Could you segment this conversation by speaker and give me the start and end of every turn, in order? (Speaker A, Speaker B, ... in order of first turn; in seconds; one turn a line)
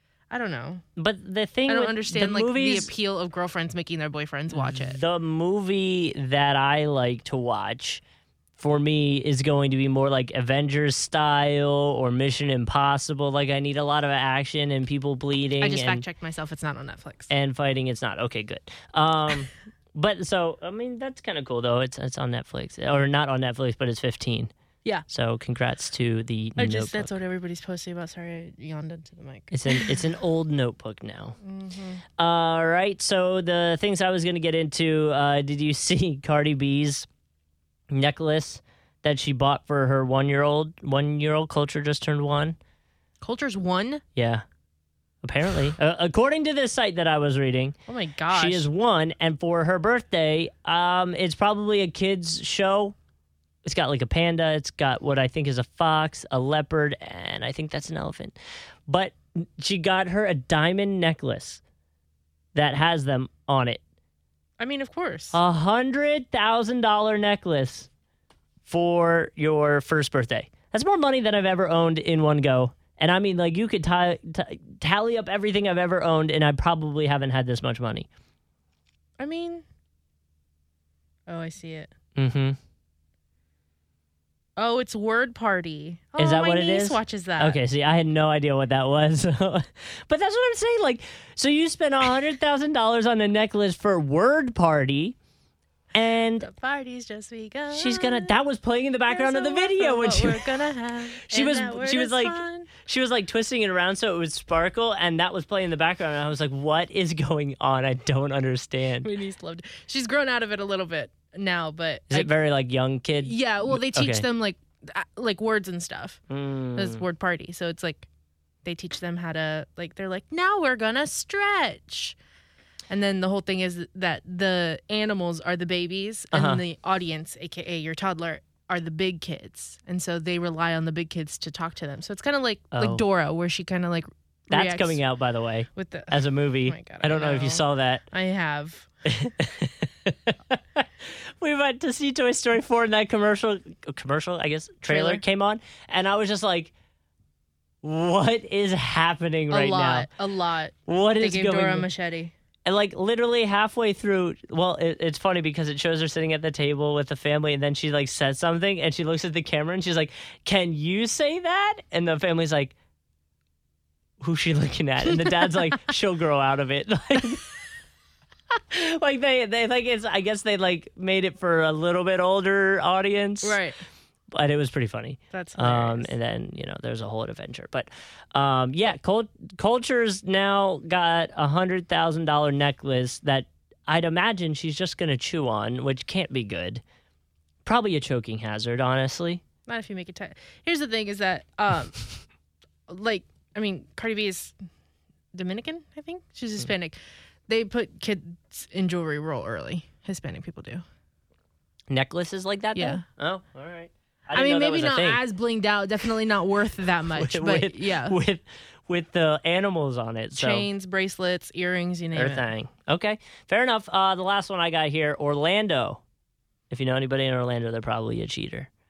Speaker A: 0.3-0.8
Speaker B: 1.0-2.9
Speaker A: 1.7-5.0
Speaker B: 4.5-8.0
Speaker B: 8.6-16.1
Speaker A: 15.6-17.3
Speaker B: 17.3-24.5
Speaker B: 25.1-27.1
Speaker A: 26.6-30.0
Speaker B: 29.5-31.4
Speaker A: 31.4-32.0
Speaker B: 32.2-37.1
Speaker B: 37.9-42.6
Speaker A: 43.2-44.0
Speaker B: 44.2-44.4
Speaker B: 45.2-47.8
Speaker A: 47.9-48.7
Speaker B: 48.3-53.0
Speaker B: 53.6-58.4
Speaker B: 58.9-61.6
Speaker B: 62.5-63.8
Speaker A: 64.6-65.4
Speaker B: 65.3-67.9
Speaker B: 68.7-78.1
Speaker A: 79.2-79.7
Speaker A: 81.3-81.9
Speaker B: 82.2-82.6
Speaker A: 84.6-87.6
Speaker B: 86.2-95.2
Speaker B: 95.9-96.5
Speaker A: 96.4-98.4
Speaker B: 97.7-109.1
Speaker A: 99.1-102.7
Speaker A: 109.0-112.3
Speaker B: 112.1-114.3
Speaker A: 113.2-116.2
Speaker B: 116.3-117.0
Speaker A: 116.8-118.1
Speaker A: 118.7-122.2
Speaker A: 122.9-135.0
Speaker B: 126.3-126.6
Speaker B: 132.7-133.1
Speaker B: 134.5-138.0
Speaker A: 135.8-138.9
Speaker B: 139.1-146.7
Speaker A: 144.9-145.2
Speaker B: 147.8-150.1
Speaker A: 149.5-152.3
Speaker B: 150.9-151.9
Speaker B: 152.7-162.8
Speaker B: 164.2-167.5
Speaker B: 168.7-173.6
Speaker A: 173.4-173.8
Speaker B: 174.3-186.8
Speaker A: 175.3-176.1
Speaker B: 187.7-189.4
Speaker A: 189.7-192.1
Speaker A: 192.9-194.6
Speaker A: 195.3-200.8
Speaker B: 201.9-205.2
Speaker A: 202.7-203.0
Speaker A: 204.3-208.2
Speaker B: 207.1-210.7
Speaker A: 210.3-212.5
Speaker B: 212.2-216.0
Speaker B: 216.7-218.7